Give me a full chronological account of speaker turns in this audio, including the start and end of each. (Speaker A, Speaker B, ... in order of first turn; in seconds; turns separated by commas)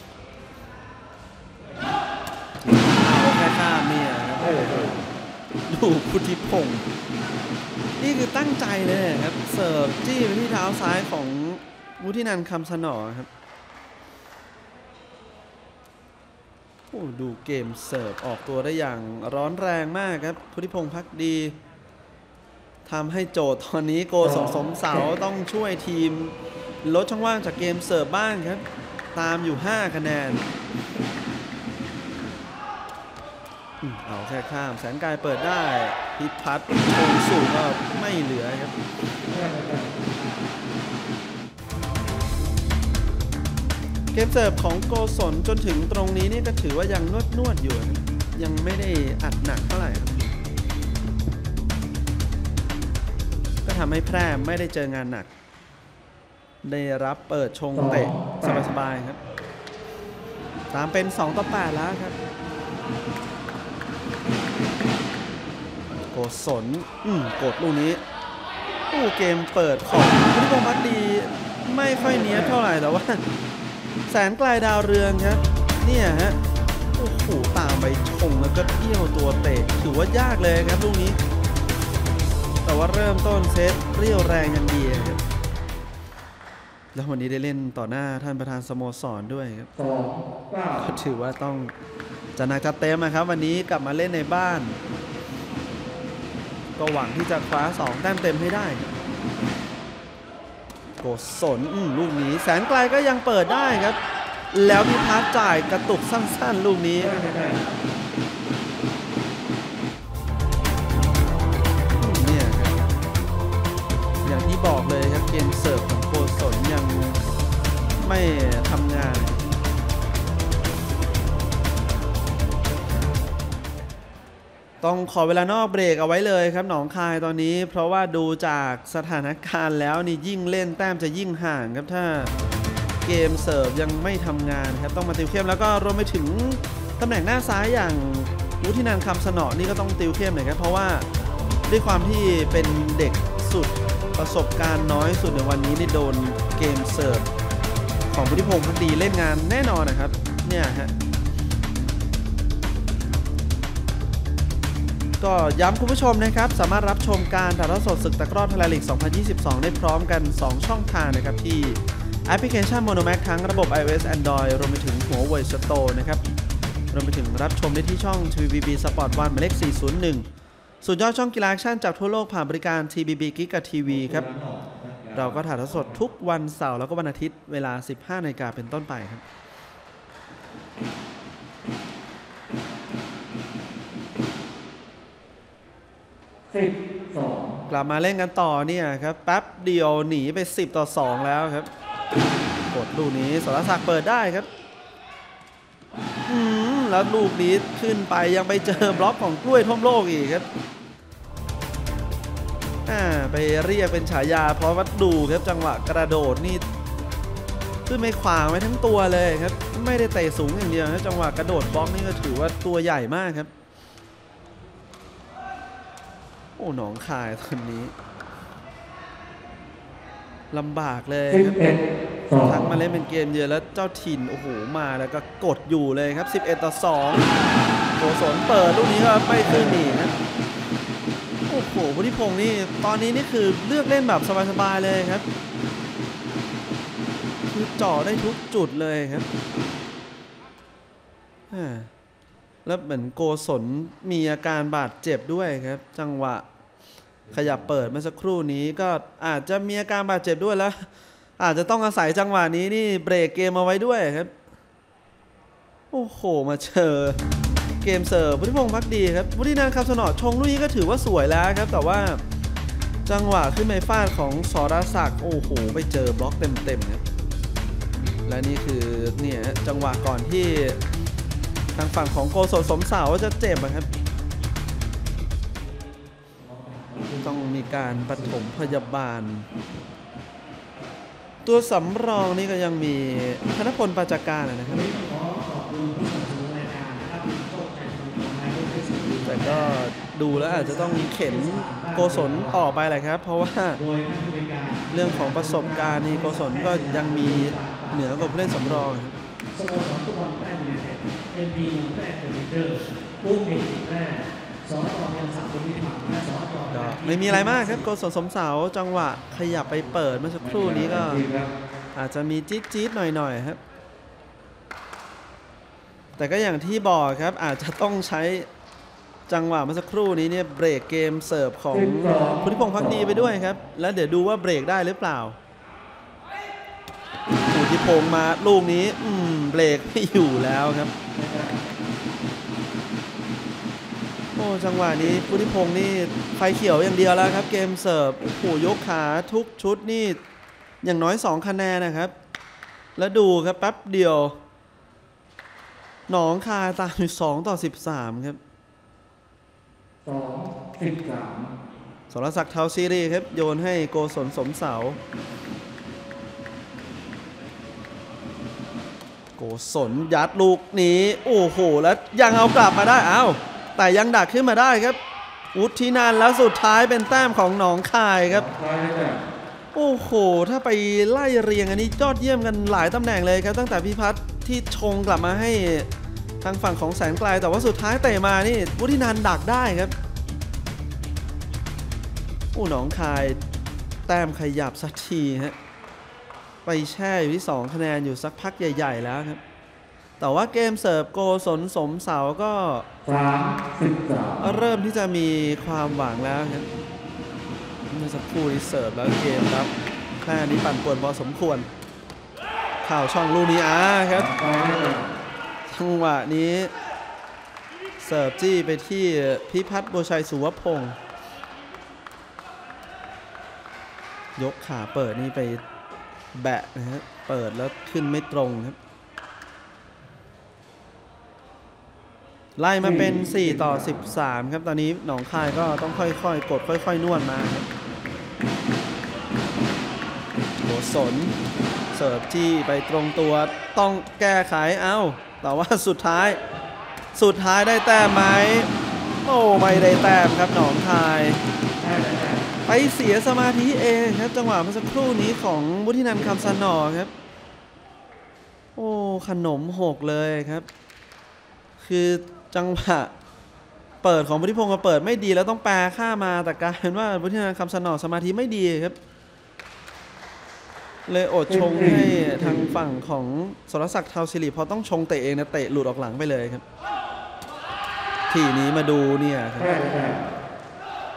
Speaker A: 2.6-4.9, Speaker B: 4.4-5.0, Speaker A: 5.7-6.8, Speaker A: 8.0-13.3, Speaker A: 16.9-21.6, Speaker A: 22.9-30.4, Speaker B: 24.2-25.1, Speaker A: 33.8-38.7, Speaker B: 39.3-39.9, Speaker A: 44.1-50.2, Speaker A: 53.6-55.3, Speaker A: 56.6-59.2, Speaker B: 57.7-58.6, Speaker A: 60.7-62.2, Speaker A: 66.1-68.0, Speaker A: 68.9-73.2, Speaker B: 72.2-72.5, Speaker A: 74.1-76.4, Speaker A: 76.9-81.2, Speaker A: 82.6-85.2, Speaker A: 86.9-89.7, Speaker B: 89.8-90.9, Speaker A: 90.8-91.7, Speaker A: 92.3-94.8, Speaker A: 96.8-98.9, Speaker A: 101.0-104.0, Speaker A: 104.5-107.1, Speaker B: 107.0-107.7, Speaker A: 112.0-112.8, Speaker A: 114.2-117.2, Speaker A: 118.0-119.4, Speaker A: 124.8-132.3, Speaker A: 133.0-141.1, Speaker A: 141.7-147.3, Speaker A: 148.1-150.9, Speaker A: 155.2-166.2, Speaker A: 166.9-170.2, Speaker A: 170.8-174.3, Speaker B: 173.8-176.0, Speaker A: 175.1-179.2, Speaker B: 186.5-187.6, Speaker A: 187.7-191.7, Speaker A: 192.7-194.5, Speaker A: 196.3-200.5, Speaker B: 198.6-199.0, Speaker A: 202.8-206.6, Speaker A: 207.8-213.5, Speaker A: 216.6-217.9, Speaker A: 220.5-221.6, Speaker B: 221.3-222.7, Speaker A: 222.4-227.3, Speaker A: 228.0-230.1, Speaker B: 229.4-229.9, Speaker A: 231.5-235.2, Speaker A: 237.5-239.3, Speaker A: 241.5-241.9, Speaker A: 242.6-246.4, Speaker B: 247.2-247.9, Speaker A: 247.3-254.3, Speaker A: 255.9-257.2, Speaker A: 257.8-262.2, Speaker A: 263.1-267.0, Speaker A: 268.2-270.8, Speaker A: 271.8-273.9, Speaker B: 276.4-278.7, Speaker A: 277.2-279.5, Speaker A: 281.4-284.9, Speaker C: 284.7-292.6, Speaker A: 289.2-293.8, Speaker C: 293.7-298.9, Speaker A: 294.9-299.1, Speaker C: 299.5-307.8, Speaker A: 306.7-311.2, Speaker B: 310.4-311.5, Speaker A: 311.9-313.6, Speaker A: 316.2-318.5, Speaker A: 319.3-325.4, Speaker B: 321.7-323.2, Speaker A: 327.5-330.9, Speaker B: 331.1-331.7, Speaker A: 334.4-340.2, Speaker B: 335.0-335.4, Speaker A: 340.8-342.1, Speaker A: 343.0-344.4, Speaker A: 346.1-348.4, Speaker B: 350.0-351.5, Speaker A: 352.1-355.0, Speaker A: 359.4-365.0, Speaker A: 365.5-368.5, Speaker B: 368.3-369.3, Speaker A: 369.7-375.9, Speaker A: 376.4-379.9, Speaker A: 382.5-383.4, Speaker A: 384.1-385.6, Speaker A: 386.6-389.4, Speaker A: 390.2-392.9, Speaker B: 393.0-394.6, Speaker A: 394.4-396.7, Speaker A: 397.9-401.7, Speaker A: 402.8-404.3, Speaker B: 404.1-405.1, Speaker A: 405.7-406.7, Speaker A: 408.0-411.0, Speaker A: 414.4-415.6, Speaker A: 416.3-418.8, Speaker A: 422.6-427.7, Speaker B: 422.8-424.0, Speaker A: 430.6-431.3, Speaker A: 431.9-436.4, Speaker A: 437.1-438.7, Speaker A: 439.2-441.4, Speaker B: 439.7-439.9, Speaker B: 441.8-442.5, Speaker A: 442.7-447.1, Speaker B: 446.1-446.6, Speaker A: 448.8-450.7, Speaker A: 451.8-453.1, Speaker A: 454.0-459.0, Speaker A: 461.1-466.6, Speaker B: 461.5-462.7, Speaker A: 468.3-469.7, Speaker B: 469.6-470.3